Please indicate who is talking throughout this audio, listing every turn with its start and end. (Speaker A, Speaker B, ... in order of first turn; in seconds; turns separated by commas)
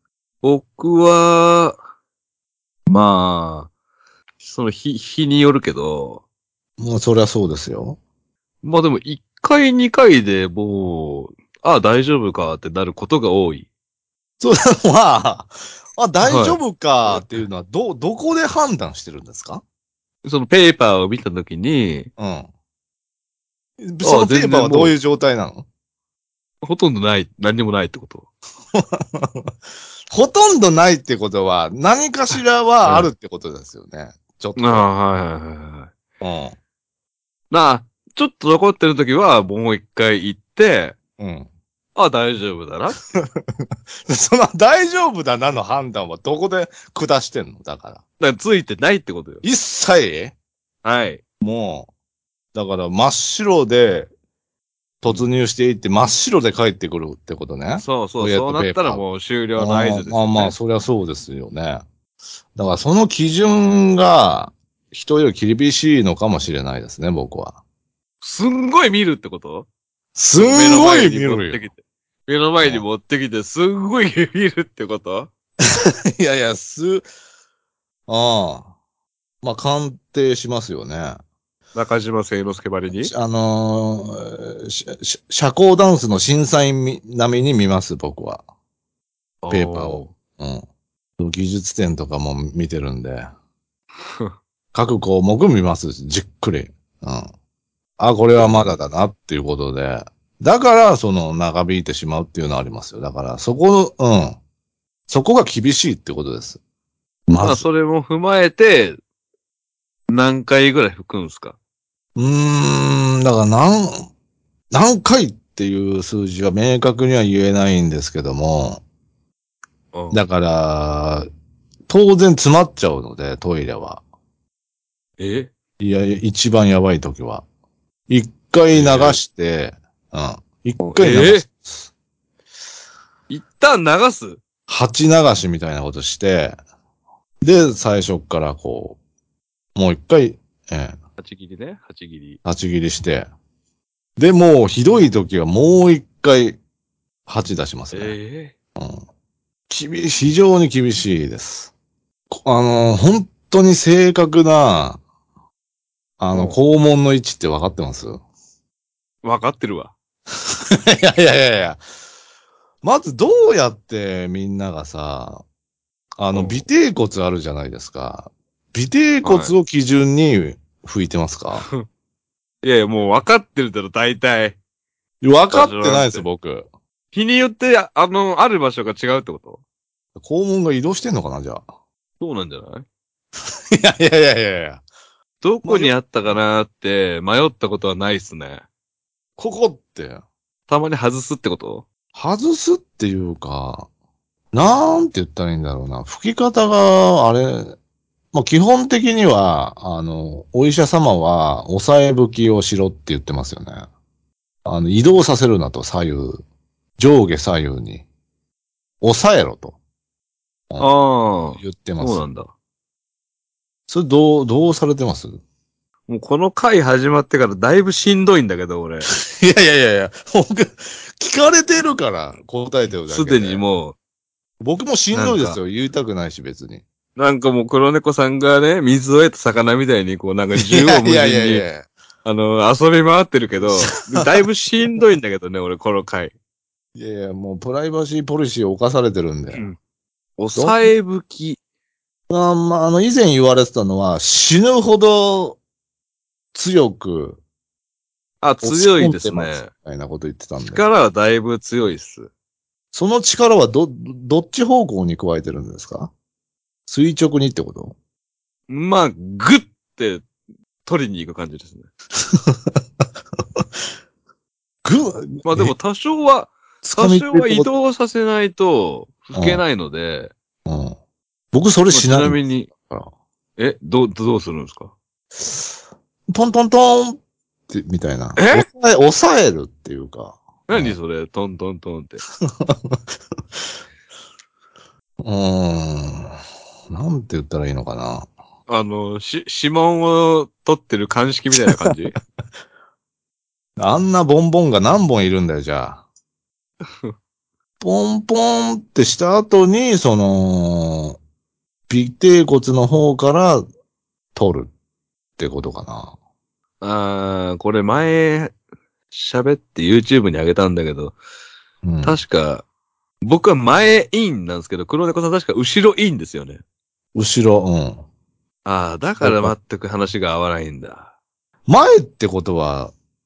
Speaker A: 0.4-1.8, Speaker A: 2.9-3.7, Speaker A: 4.4-6.2, Speaker B: 6.8-8.0, Speaker A: 8.6-13.7, Speaker B: 14.4-19.6, Speaker A: 16.2-17.3, Speaker A: 20.2-22.1, Speaker B: 22.2-22.5, Speaker B: 23.8-25.7, Speaker A: 24.0-25.0, Speaker A: 26.6-28.3, Speaker B: 28.7-29.5, Speaker B: 30.1-34.9, Speaker A: 32.8-33.1, Speaker A: 34.6-35.9, Speaker B: 36.2-36.6, Speaker A: 37.5-41.0, Speaker B: 41.2-41.5, Speaker A: 42.0-43.0, Speaker B: 43.1-48.0, Speaker A: 48.2-49.4, Speaker B: 49.4-50.4, Speaker A: 50.8-51.2, Speaker B: 51.4-51.9, Speaker B: 52.5-54.1, Speaker B: 55.0-59.0, Speaker A: 57.8-60.6, Speaker B: 59.6-61.9, Speaker B: 62.6-67.6, Speaker A: 68.2-69.7, Speaker B: 70.2-71.6, Speaker A: 70.4-75.3, Speaker B: 75.7-77.1, Speaker B: 78.1-78.7, Speaker B: 79.4-81.2, Speaker A: 81.8-83.1, Speaker B: 83.0-88.4, Speaker A: 89.4-90.1, Speaker B: 89.5-90.6, Speaker B: 91.2-93.3, Speaker B: 94.7-97.3, Speaker B: 98.0-104.4, Speaker A: 98.4-98.7, Speaker B: 105.1-106.6, Speaker B: 107.3-107.6, Speaker A: 107.4-109.0, Speaker A: 110.1-111.6, Speaker B: 112.2-114.1, Speaker B: 114.7-118.8, Speaker A: 119.9-120.2, Speaker B: 120.1-121.3, Speaker B: 121.9-124.0, Speaker A: 125.2-125.5, Speaker B: 125.8-127.5, Speaker B: 128.1-131.9, Speaker A: 128.7-129.2, Speaker A: 130.8-131.4, Speaker A: 133.3-134.4, Speaker B: 134.7-136.6, Speaker B: 137.4-139.0, Speaker B: 139.8-141.0, Speaker A: 141.2-142.4, Speaker B: 142.4-143.3, Speaker B: 144.2-146.6, Speaker B: 147.3-148.2, Speaker A: 147.9-148.5, Speaker B: 148.8-149.0, Speaker B: 149.7-151.7, Speaker B: 152.3-155.0, Speaker B: 156.2-158.2, Speaker A: 156.3-156.6, Speaker A: 159.2-159.9, Speaker B: 160.7-161.8, Speaker B: 162.8-165.4, Speaker B: 166.2-171.7, Speaker A: 166.3-166.7, Speaker A: 169.2-169.5, Speaker A: 171.6-171.8, Speaker A: 172.6-174.6, Speaker B: 175.2-176.7, Speaker A: 175.5-176.2, Speaker A: 177.1-179.6, Speaker B: 180.2-181.6, Speaker A: 182.2-182.8, Speaker B: 183.7-184.8, Speaker A: 185.4-188.7, Speaker B: 185.6-186.4, Speaker B: 189.4-190.2, Speaker A: 190.7-191.9, Speaker B: 192.2-193.9, Speaker B: 194.5-197.8, Speaker B: 198.3-203.9, Speaker B: 204.7-206.4, Speaker B: 207.0-208.1, Speaker B: 209.0-209.8, Speaker A: 210.8-212.5, Speaker B: 211.6-212.2, Speaker B: 213.9-215.4, Speaker A: 216.1-219.1, Speaker B: 219.1-223.6, Speaker A: 223.1-223.9, Speaker B: 224.6-226.8, Speaker A: 225.1-225.6, Speaker A: 227.2-231.6, Speaker B: 230.6-231.9, Speaker A: 232.2-236.3, Speaker B: 233.6-234.3, Speaker B: 236.9-239.7, Speaker A: 239.5-239.8, Speaker A: 240.4-241.6, Speaker B: 240.6-240.9, Speaker B: 242.3-245.6, Speaker B: 246.5-247.4, Speaker A: 248.4-249.7, Speaker B: 248.6-250.8, Speaker A: 250.6-252.3, Speaker B: 252.9-256.1, Speaker B: 256.9-258.0, Speaker A: 258.7-260.3, Speaker A: 260.9-261.9, Speaker B: 262.2-262.7, Speaker B: 264.9-265.7, Speaker A: 265.4-270.3, Speaker B: 266.8-267.7, Speaker B: 269.3-269.6, Speaker B: 270.7-271.0, Speaker B: 271.5-273.1, Speaker A: 271.9-272.7, Speaker A: 273.6-274.9, Speaker B: 275.4-275.7, Speaker B: 276.3-281.0, Speaker A: 278.4-278.7, Speaker A: 280.7-282.2, Speaker B: 282.4-283.0, Speaker B: 285.2-286.4, Speaker B: 286.9-288.3, Speaker A: 288.7-292.2, Speaker B: 291.6-291.9, Speaker B: 293.8-296.0, Speaker B: 297.8-301.2, Speaker B: 301.9-303.7, Speaker B: 304.4-304.7, Speaker B: 305.4-306.1, Speaker A: 306.8-308.5, Speaker A: 309.1-311.2, Speaker B: 311.8-312.2, Speaker A: 312.0-312.6, Speaker A: 313.2-316.6, Speaker B: 317.1-318.0, Speaker A: 318.6-321.1, Speaker B: 319.2-319.5, Speaker B: 321.7-322.9